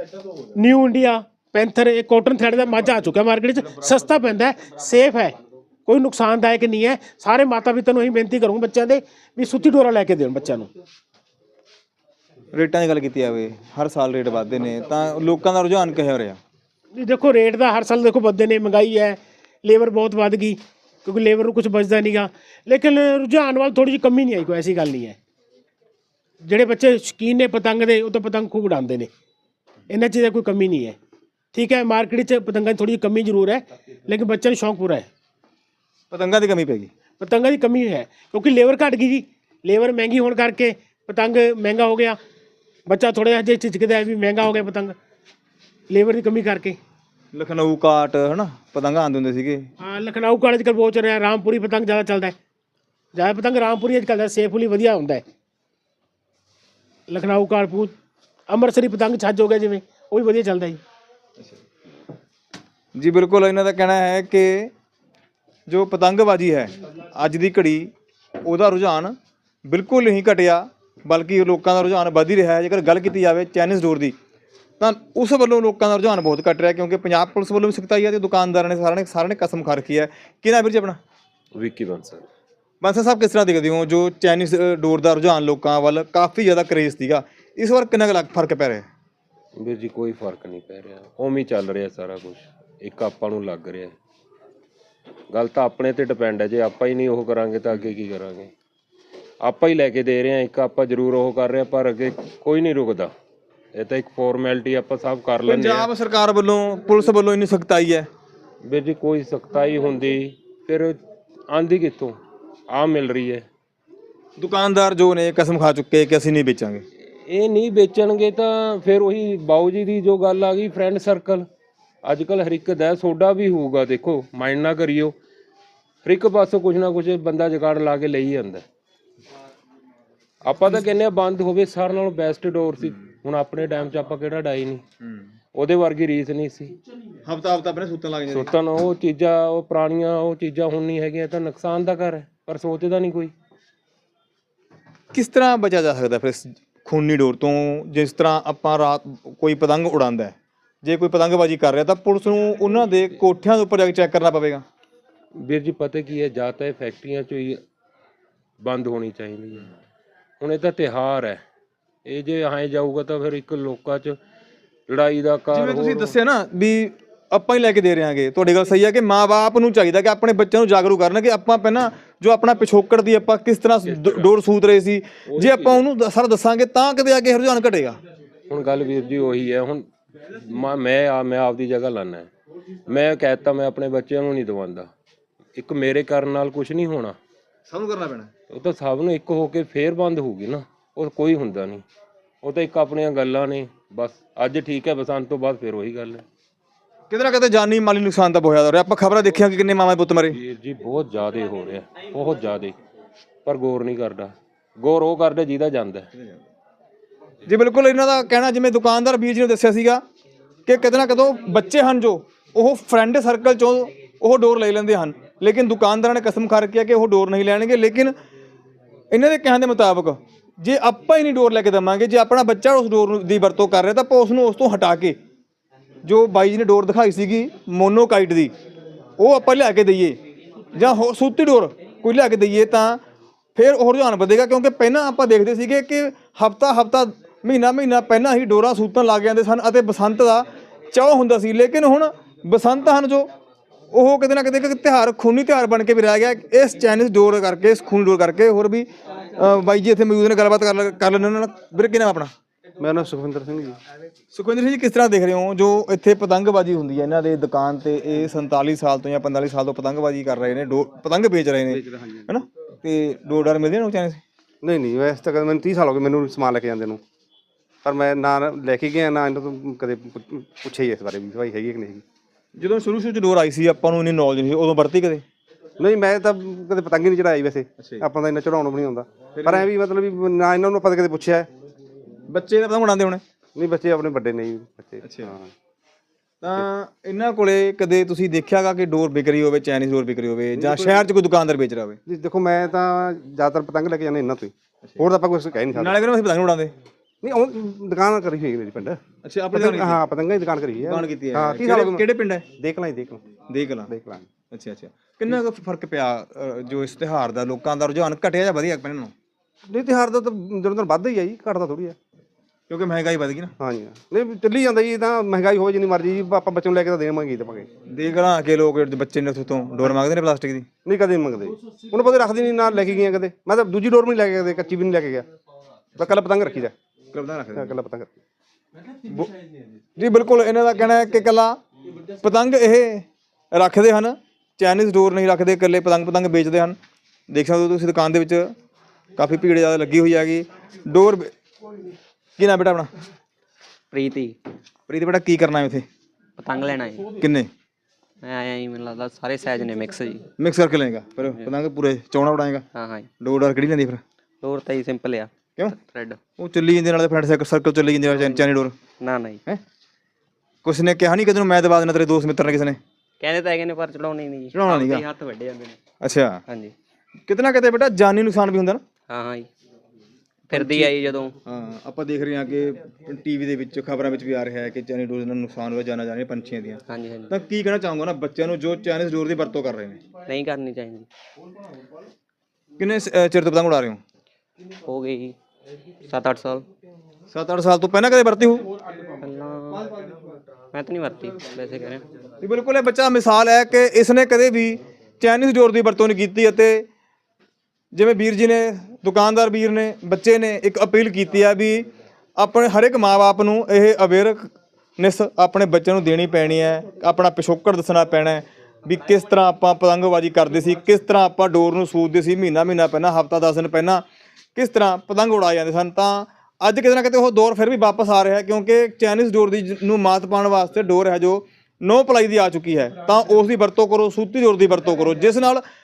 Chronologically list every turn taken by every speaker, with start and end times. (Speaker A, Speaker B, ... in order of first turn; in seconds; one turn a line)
Speaker A: 0.5-10.7
Speaker B: 12.5-16.4
Speaker A: 16.9-25.2
Speaker A: 26.4-29.1
Speaker A: 29.9-31.0
Speaker A: 31.5-35.1
Speaker B: 36.1-36.9
Speaker A: 37.2-42.2
Speaker A: 42.9-45.0
Speaker A: 45.9-46.8
Speaker B: 47.3-49.7
Speaker A: 49.8-52.4
Speaker A: 53.1-55.2
Speaker A: 57.1-57.9
Speaker A: 58.5-60.8
Speaker B: 63.0-64.7
Speaker B: 65.7-67.9
Speaker B: 68.4-74.1
Speaker B: 74.8-81.0
Speaker C: 81.5-82.3
Speaker B: 82.8-88.9
Speaker C: 89.6-93.9
Speaker C: 95.3-98.5
Speaker C: 99.4-103.1
Speaker C: 103.7-105.9
Speaker B: 105.5-108.1
Speaker C: 108.6-111.0
Speaker C: 111.5-112.2
Speaker C: 112.7-113.5
Speaker B: 114.4-116.8
Speaker C: 117.2-121.5
Speaker C: 122.0-125.2
Speaker C: 126.0-128.7
Speaker C: 130.4-134.8
Speaker B: 135.0-135.3
Speaker C: 135.5-136.8
Speaker B: 137.2-138.5
Speaker C: 138.3-143.3
Speaker B: 145.1-154.6
Speaker C: 155.4-157.6
Speaker C: 158.6-159.7
Speaker C: 160.4-161.4
Speaker C: 162.1-164.2
Speaker C: 164.9-166.2
Speaker B: 165.5-178.0
Speaker C: 173.9-174.3
Speaker C: 175.3-175.9
Speaker C: 178.5-182.3
Speaker C: 182.9-184.9
Speaker C: 185.6-187.2
Speaker B: 187.7-188.3
Speaker C: 188.5-191.8
Speaker C: 192.4-196.2
Speaker B: 197.1-200.4
Speaker C: 200.3-202.8
Speaker C: 203.4-206.1
Speaker B: 207.5-210.0
Speaker B: 210.7-218.1
Speaker B: 219.1-225.2
Speaker B: 226.0-228.5
Speaker B: 229.2-230.2
Speaker B: 230.7-233.0
Speaker B: 233.6-243.3
Speaker B: 243.9-252.3
Speaker D: 252.8-253.8
Speaker B: 254.3-264.2
Speaker D: 261.7-262.2
Speaker D: 264.6-267.0
Speaker D: 267.8-272.0
Speaker B: 272.6-275.2
Speaker D: 275.8-281.5
Speaker B: 277.8-278.0
Speaker B: 279.4-279.7
Speaker B: 282.3-283.2
Speaker D: 283.6-285.5
Speaker B: 285.0-285.3
Speaker B: 286.4-292.0
Speaker D: 290.6-291.1
Speaker D: 292.1-296.0
Speaker B: 295.8-296.7
Speaker D: 297.2-299.0
Speaker B: 299.2-300.0
Speaker D: 299.5-303.2
Speaker B: 300.9-302.4
Speaker B: 303.5-303.9
Speaker D: 303.9-304.3
Speaker B: 304.5-309.1
Speaker D: 309.7-312.0
Speaker B: 312.7-313.5
Speaker D: 313.6-317.7
Speaker B: 317.9-320.7
Speaker D: 320.9-325.3
Speaker D: 326.0-326.8
Speaker B: 327.1-327.7
Speaker D: 327.6-328.1
Speaker B: 329.1-329.3
Speaker B: 330.0-331.6
Speaker B: 332.2-336.8
Speaker B: 337.3-338.5
Speaker B: 339.2-341.3
Speaker B: 342.4-342.9
Speaker E: 343.9-344.4
Speaker B: 344.9-345.9
Speaker E: 346.4-347.1
Speaker B: 347.1-347.5
Speaker E: 348.2-350.3
Speaker B: 350.4-352.6
Speaker E: 352.7-353.1
Speaker B: 353.2-354.0
Speaker E: 354.4-356.2
Speaker B: 356.4-358.8
Speaker E: 359.0-359.4
Speaker B: 360.6-362.8
Speaker E: 363.2-365.8
Speaker B: 364.5-365.1
Speaker B: 366.0-366.4
Speaker E: 366.5-366.7
Speaker B: 367.3-368.8
Speaker E: 369.1-369.5
Speaker E: 370.5-371.4
Speaker B: 370.5-370.9
Speaker B: 371.4-380.0
Speaker E: 376.9-377.3
Speaker E: 380.3-381.1
Speaker B: 382.8-384.0
Speaker E: 384.8-385.4
Speaker E: 386.1-386.7
Speaker B: 387.3-388.7
Speaker E: 389.2-390.1
Speaker E: 390.7-392.0
Speaker B: 392.4-396.9
Speaker B: 397.9-414.0
Speaker B: 414.6-425.6